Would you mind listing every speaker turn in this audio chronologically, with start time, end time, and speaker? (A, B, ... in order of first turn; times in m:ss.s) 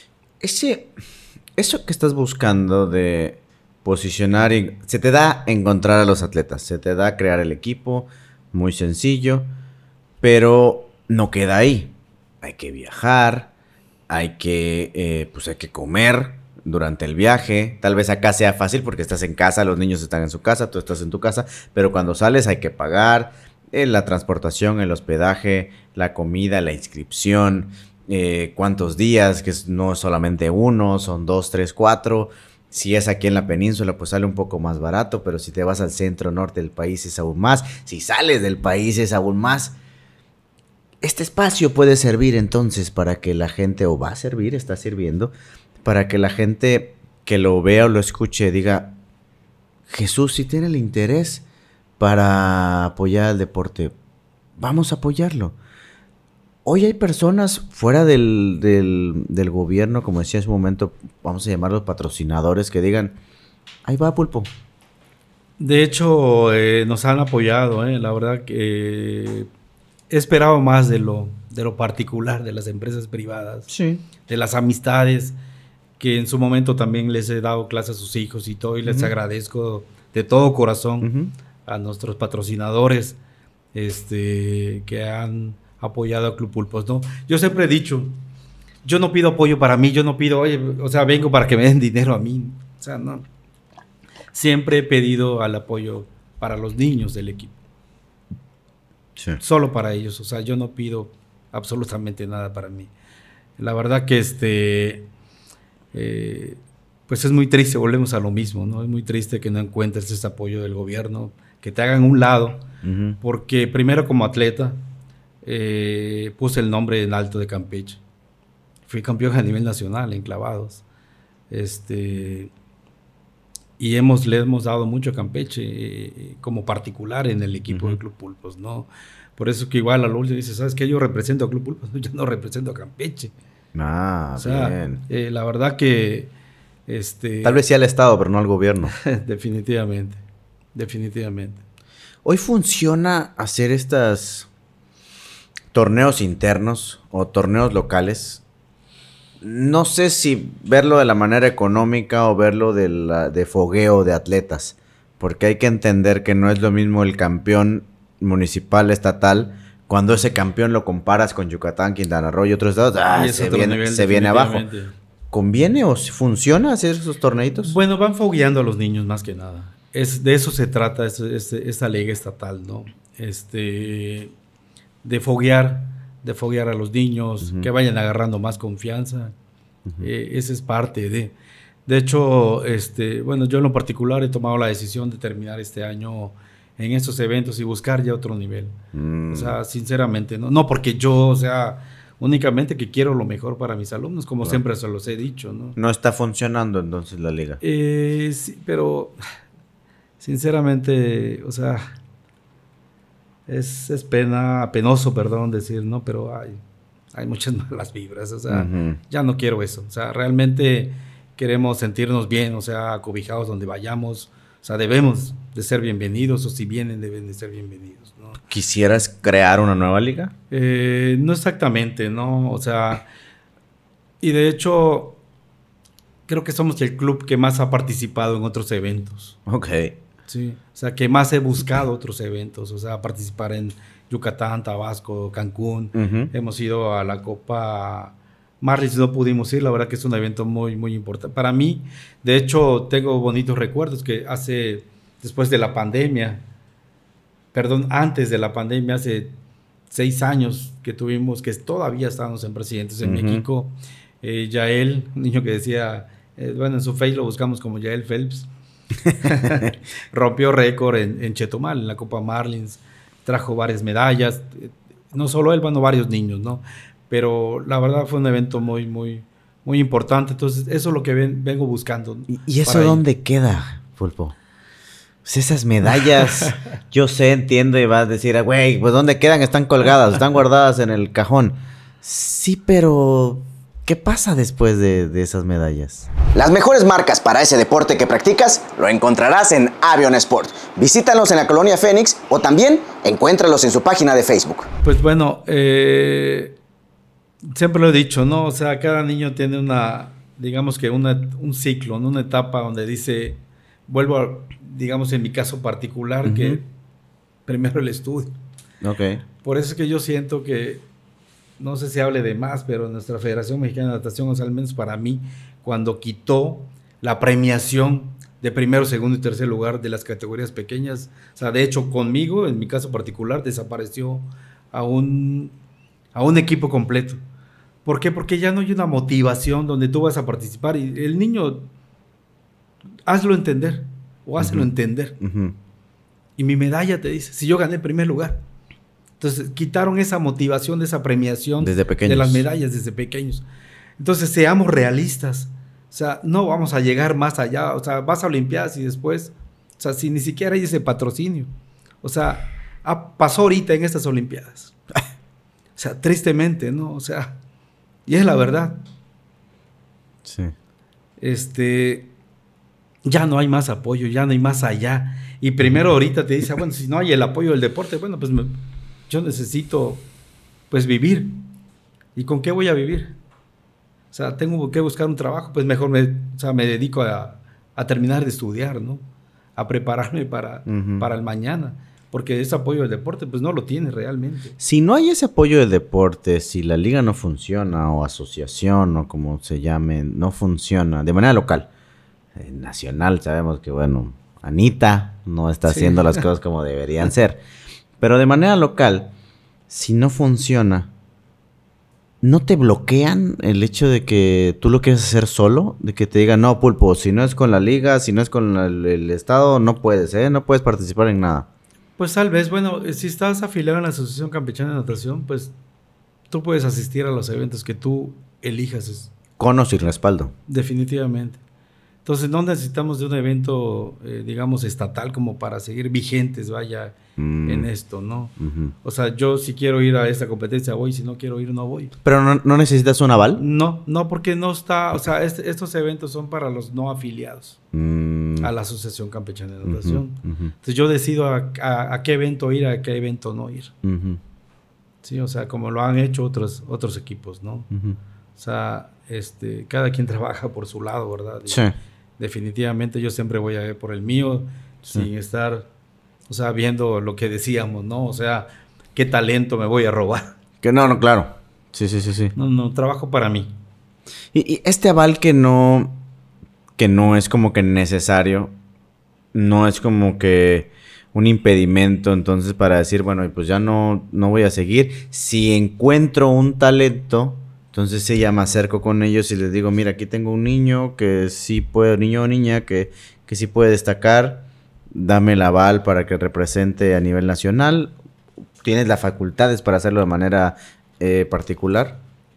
0:00.4-0:00.9 A
0:01.6-0:09.5 A
0:10.2-0:13.5 A
0:14.1-0:39.8 A
0:41.0-0:45.3 A
0:45.8-0:49.0 A
0:49.9-0:51.4 A
0:52.0-0:53.9 A
0:54.6-0:55.5 A
0:56.6-1:03.2 A
1:03.8-1:04.5 A
1:05.6-1:09.5 B
1:10.1-1:13.7 B
1:13.7-1:14.0 A
1:14.3-1:15.4 B
1:16.0-1:21.1 B
1:18.8-1:19.1 A
1:21.0-1:21.3 A
1:21.6-1:23.2 B
1:23.7-1:28.2 B
1:28.8-1:33.2 B
1:34.3-1:37.5 B
1:39.4-1:42.9 B
1:43.6-1:45.1 B
1:45.9-1:52.6 B
1:52.8-1:53.2 A
1:53.2-1:54.8 B
1:55.4-1:58.0 B
1:58.9-2:00.8 B
2:01.5-2:02.5 B
2:03.8-2:13.3 B
2:07.7-2:08.0 A
2:13.7-2:15.0 A
2:14.4-2:16.3 B
2:16.9-2:17.6 B
2:17.4-2:19.0 A
2:18.9-2:20.2 B
2:20.7-2:21.6 B
2:22.2-2:24.5 A
2:25.7-2:28.4 A
2:29.4-2:44.6 A
2:43.1-2:44.9 B
2:45.3-2:47.7 A
2:47.6-2:54.3 B
2:55.0-2:59.3 B
3:00.0-3:01.3 B
3:01.8-3:08.7 B
3:08.9-3:09.6 A
3:09.3-3:15.8 B
3:15.8-3:17.6 A
3:17.6-3:19.1 B
3:20.2-3:21.9 B
3:23.5-3:26.6 B
3:27.1-3:38.4 B
3:28.5-3:29.0 A
3:38.5-3:40.3 A
3:40.5-3:43.0 B
3:44.2-3:45.2 B
3:46.3-3:49.4 B
3:49.5-3:49.9 A
3:50.3-4:06.4 B
3:55.9-3:56.3 A
4:07.5-4:09.3 B
4:09.9-4:18.5 B
4:13.0-4:13.4 A
4:19.1-4:33.0 B
4:32.3-4:34.3 A
4:35.2-4:48.3 A
4:46.3-4:54.6 C
4:49.0-4:51.5 A
4:52.4-4:53.5 A
4:54.1-4:54.5 A
4:54.8-4:56.5 B
4:57.4-5:06.6 B
5:06.2-5:06.6 A
5:07.4-5:08.3 B
5:08.8-5:09.2 A
5:09.4-5:10.8 B
5:11.6-5:25.5 B
5:26.1-5:27.2 B
5:27.8-5:31.7 B
5:33.1-5:35.2 B
5:34.4-5:34.7 A
5:35.2-5:35.5 A
5:36.4-5:38.4 B
5:39.2-5:43.4 B
5:41.6-5:42.4 A
5:44.0-5:51.5 B
5:52.0-5:54.7 B
5:55.8-5:57.4 B
5:58.0-5:58.8 B
6:00.2-6:00.5 A
6:01.2-6:02.1 B
6:03.0-6:08.5 B
6:09.1-6:10.0 B
6:10.7-6:11.4 B
6:12.1-6:13.2 B
6:14.1-6:19.0 B
6:19.6-6:24.6 B
6:20.7-6:21.0 A
6:24.6-6:31.7 A
6:32.4-6:37.4 A
6:35.7-6:36.2 B
6:38.0-6:39.1 A
6:39.7-6:40.9 A
6:42.2-6:51.4 A
6:52.0-6:55.5 B
6:56.3-6:59.1 B
6:59.4-7:00.3 A
7:00.5-7:01.4 B
7:02.0-7:11.9 B
7:07.2-7:07.7 A
7:08.4-7:08.7 A
7:12.0-7:13.4 A
7:13.4-7:17.6 B
7:17.7-7:18.5 A
7:18.4-7:23.7 B
7:19.6-7:20.5 A
7:23.8-7:24.2 A
7:25.0-7:27.7 B
7:27.7-7:28.0 A
7:28.4-7:35.7 B
7:31.5-7:31.7 A
7:36.3-7:40.4 B
7:40.6-7:42.3 A
7:42.4-7:43.5 B
7:44.3-7:46.0 A
7:46.8-7:48.5 A
7:49.3-8:07.9 A
8:08.6-8:12.0 A